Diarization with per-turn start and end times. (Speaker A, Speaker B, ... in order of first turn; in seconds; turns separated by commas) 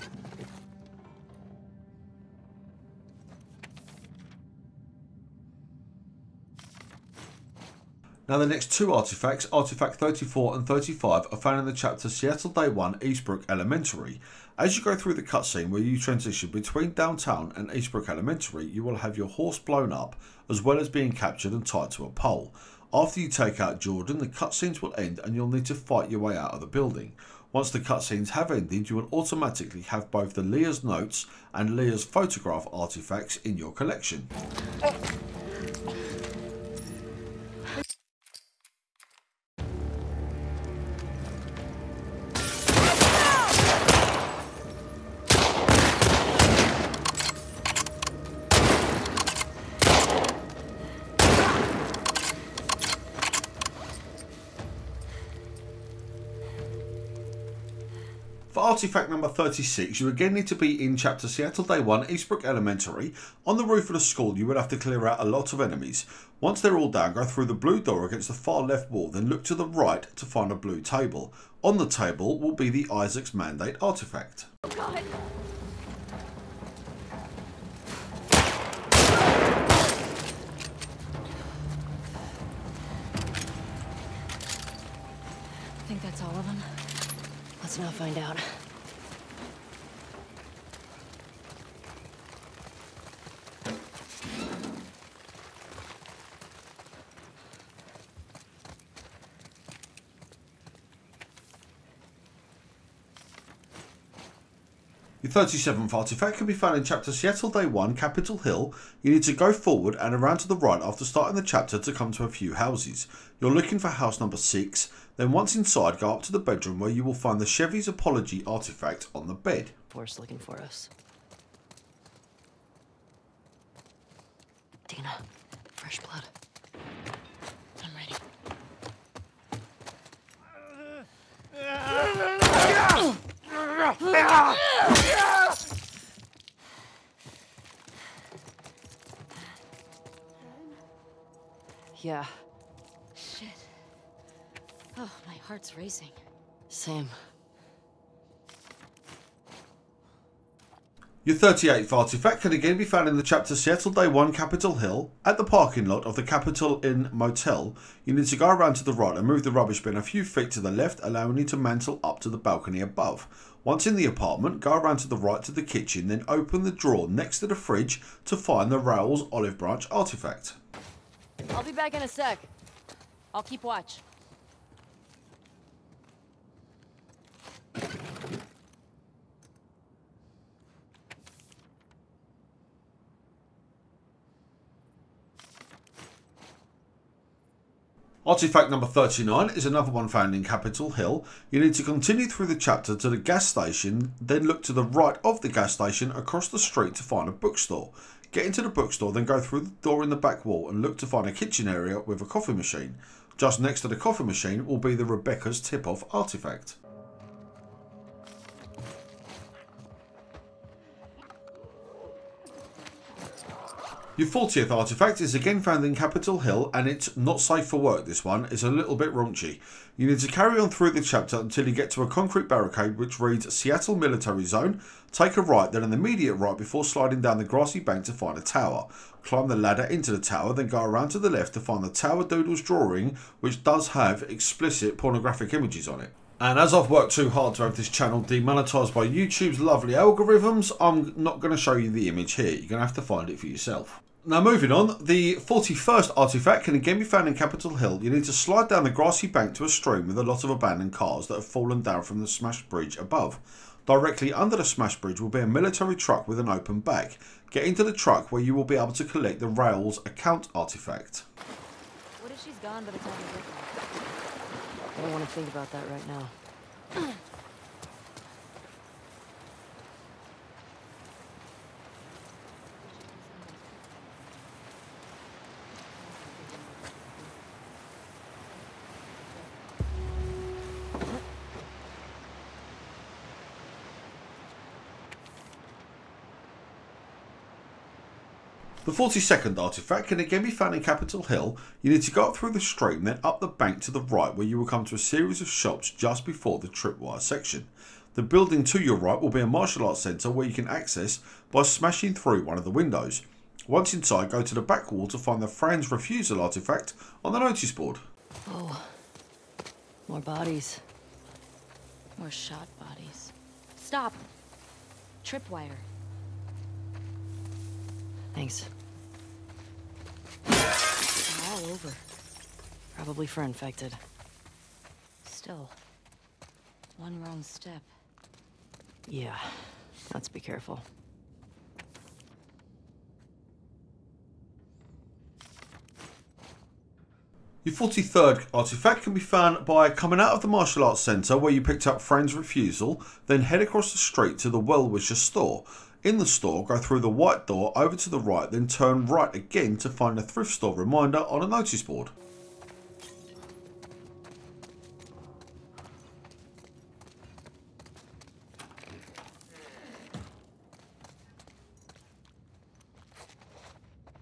Speaker A: 8.3-34.3, Speaker A: 58.5-74.5, Speaker B: 85.8-87.0, Speaker C: 87.6-88.7, Speaker A: 105.2-119.7, Speaker C: 119.9-120.9, Speaker C: 124.9-125.2, Speaker C: 125.8-126.3, Speaker B: 127.8-128.2, Speaker C: 141.9-142.4, Speaker B: 143.1-143.8, Speaker B: 144.9-146.2, Speaker C: 146.7-147.3, Speaker A: 151.2-170.6, Speaker B: 171.5-172.5, Speaker B: 173.3-174.0, Speaker A: 188.2-206.8, Speaker A: 214.2-261.2, Speaker B: 262.2-263.9, Speaker C: 264.9-266.3, Speaker A: 288.8-308.0, Speaker C: 308.4-309.0, Speaker C: 310.1-310.8, Speaker B: 312.2-314.2, Speaker B: 315.2-315.9, Speaker C: 318.3-318.7, Speaker B: 321.2-322.0, Speaker C: 322.9-324.0, Speaker B: 325.2-325.8, Speaker B: 326.9-327.9, Speaker C: 329.1-330.8, Speaker A: 337.6-352.1